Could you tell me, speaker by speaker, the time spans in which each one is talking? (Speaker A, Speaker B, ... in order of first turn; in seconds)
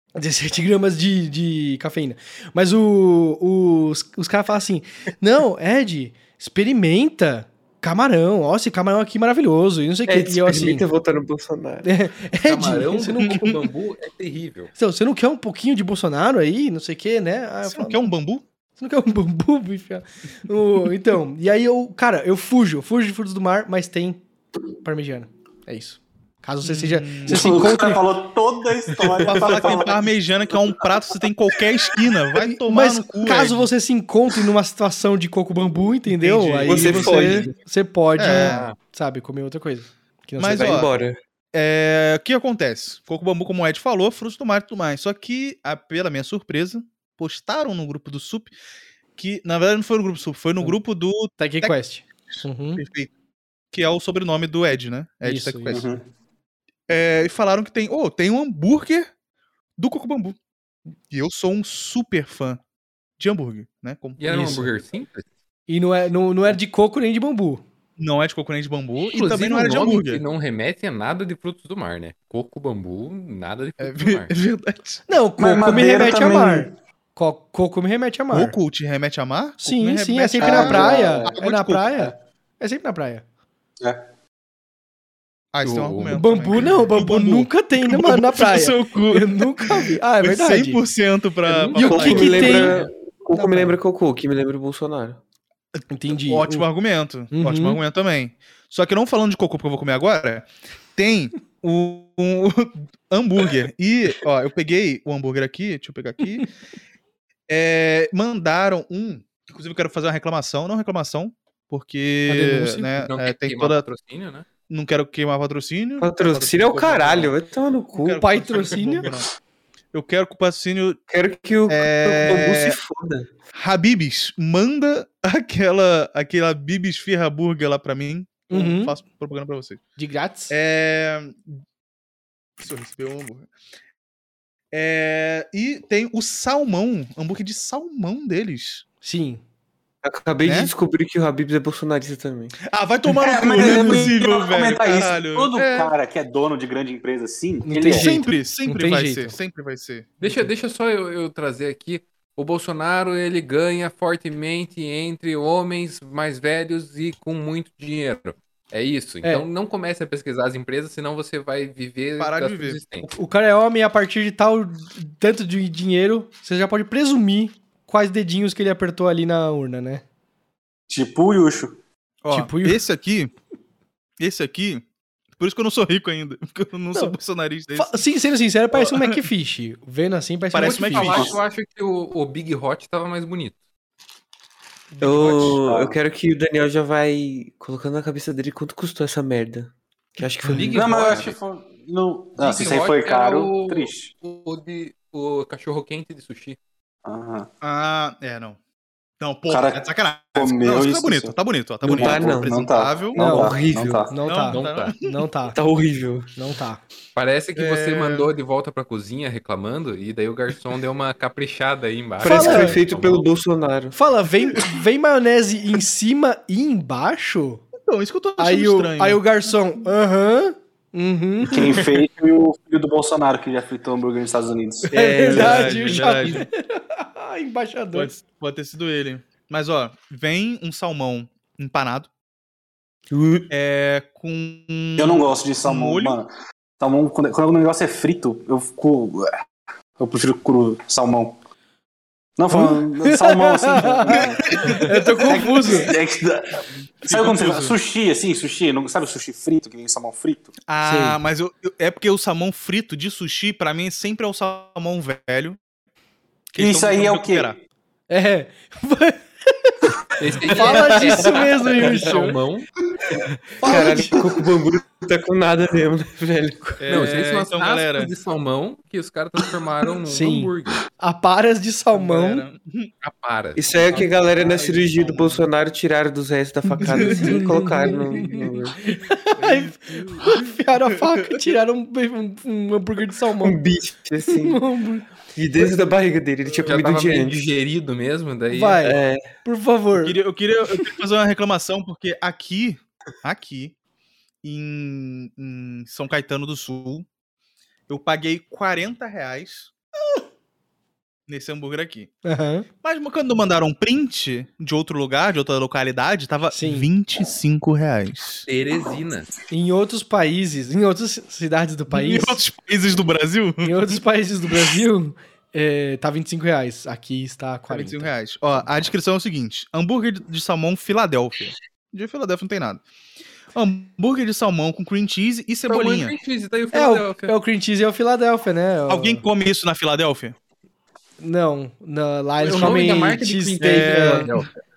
Speaker A: 0.2-10.8, 11.8-13.6, 14.8-18.1, 18.8-24.2, 24.8-28.1, 32.4-40.9, 51.4-52.8, 55.2-55.8, 64.2-64.7, 65.7-67.6, 75.1-78.6, 79.6-83.2, 86.1-90.8, 91.6-93.8, 95.9-96.7, 97.3-97.8, 112.3-112.9, 118.1-119.1, 128.5-128.9, 130.0-130.6, 139.0-139.4, 143.5-144.1, 147.7-149.3, 163.0-170.0, 172.3-172.8, 177.8-181.3, 203.2-203.5, 204.1-205.6, 206.4-206.8, 212.2-212.8, 213.9-217.6, 218.4-221.9, 224.9-228.1, 242.5-245.9, 250.8-251.2, 258.1-259.9, 260.5-262.4, 263.6-264.2, 270.1-272.4, 276.7-283.6, 284.3-285.1, 288.5-290.2, 302.2-302.7, 306.5-306.9, 309.5-312.4, 313.6-318.1, 326.7-329.2, 331.2-334.3
Speaker B: 10.1-11.9, 36.6-37.5, 40.5-41.2, 91.7-95.2, 116.0-118.3, 121.1-123.3, 140.0-142.6, 185.0-190.8, 201.8-202.6, 203.2-204.1, 205.5-206.3, 212.2-214.0, 224.9-225.8, 260.6-261.4, 263.6-266.8, 273.6-278.8, 283.4-284.6, 285.3-287.5, 288.8-289.3
Speaker C: 12.4-14.7, 38.2-38.8, 64.2-65.3, 69.0-74.3, 85.6-86.3, 112.9-114.5, 150.2-163.1, 180.6-183.6, 190.5-191.4, 192.4-196.6, 204.4-204.9, 207.2-213.3, 225.6-226.5, 260.2-262.7, 266.9-270.8, 273.0-273.8, 286.6-288.8, 308.5-309.3, 325.7-327.3, 332.4-334.5
Speaker D: 17.7-18.4, 26.6-27.7, 29.2-33.7, 36.1-37.5, 38.2-38.7, 40.4-40.9, 41.5-48.5, 49.2-51.7, 52.8-53.1, 53.7-55.9, 56.9-59.1, 59.8-60.4, 61.1-62.6, 63.2-64.2, 68.0-70.2, 73.8-75.0, 78.3-82.1, 85.5-92.8, 95.8-106.5, 107.5-113.8, 114.7-117.3, 118.0-119.3, 119.9-121.0, 121.7-122.8, 123.5-129.8, 130.5-131.4, 132.6-133.5, 134.7-138.8, 140.4-140.7, 142.7-145.9, 147.9-150.2, 162.2-162.8, 172.2-173.3, 174.2-174.8, 175.4-178.0, 178.7-179.2, 180.5-181.3, 185.2-185.5, 197.6-198.6, 199.2-203.2, 204.2-205.1, 207.6-208.3, 217.9-219.2, 225.3-226.5, 227.9-232.1, 233.5-236.2, 244.3-244.9, 247.0-247.8, 250.7-255.6, 256.5-257.6, 263.6-264.1, 266.8-268.1, 271.9-272.9, 273.9-275.4, 276.8-277.3, 279.4-281.4, 290.0-293.8, 294.4-297.1, 297.9-299.7, 301.3-302.1, 302.8-308.5, 311.9-314.0, 317.7-322.8, 323.5-326.1, 328.9-330.4, 332.5-332.8, 333.6-334.4
Speaker E: 27.3-30.9, 55.7-56.0, 75.4-76.7, 80.4-81.3, 143.2-148.2, 170.9-171.8, 181.1-181.4, 185.3-186.0, 190.7-194.1, 197.1-197.5, 199.5-204.2, 221.4-224.9, 235.0-239.3, 240.0-241.4, 242.4-250.5, 256.6-257.6